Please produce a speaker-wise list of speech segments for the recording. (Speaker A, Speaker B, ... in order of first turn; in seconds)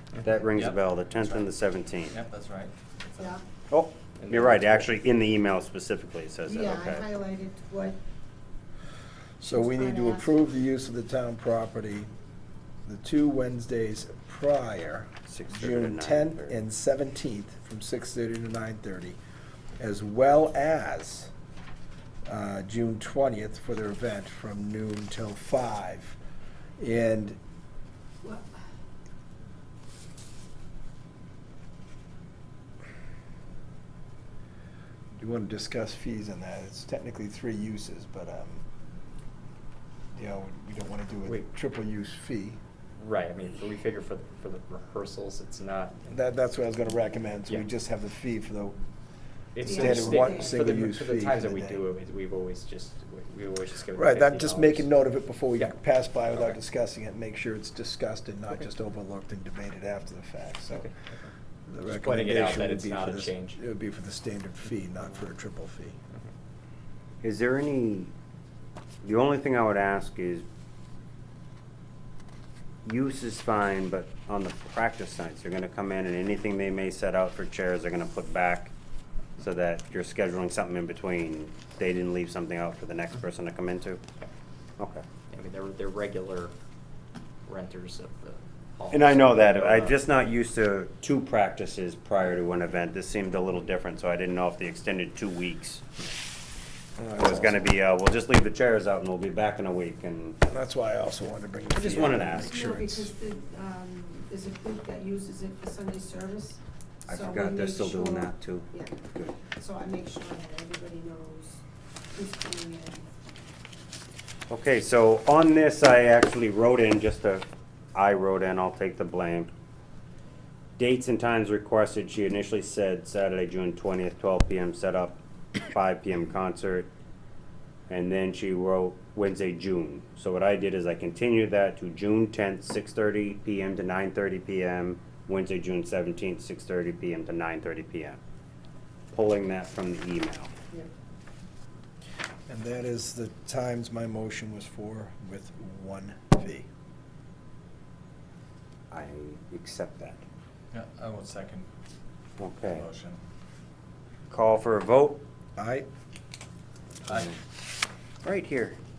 Speaker A: 0.2-2.2, 3.7-7.1, 15.3-16.6, 67.2-68.1, 69.0-70.4, 72.8-78.7, 79.4-84.0, 84.8-85.0, 88.9-95.8, 97.2-100.4, 101.7-102.6, 107.1-109.4, 114.5-119.5, 120.8-126.9, 127.9-138.2, 139.1-140.5, 148.9-150.2, 152.4-152.8, 154.3-155.2, 158.2-158.8
Speaker B: 0.5-1.5, 2.0-3.4, 150.7-151.7, 152.6-153.2, 157.1-157.4
Speaker C: 4.2-4.9, 43.0-46.2, 49.5-54.9, 60.7-61.3, 61.9-63.6, 85.3-86.5, 87.5-90.0
Speaker D: 6.5-8.0, 9.4-10.3, 28.2-28.5, 49.6-50.6, 102.4-113.0
Speaker E: 9.4-12.1, 12.8-19.2, 19.8-21.3, 22.2-26.2, 26.8-27.4, 35.2-38.6, 40.1-42.6, 46.1-48.8, 49.6-51.8, 53.9-60.9, 61.7-66.0, 97.0-97.7, 100.4-103.1, 142.5-146.7, 155.6-155.9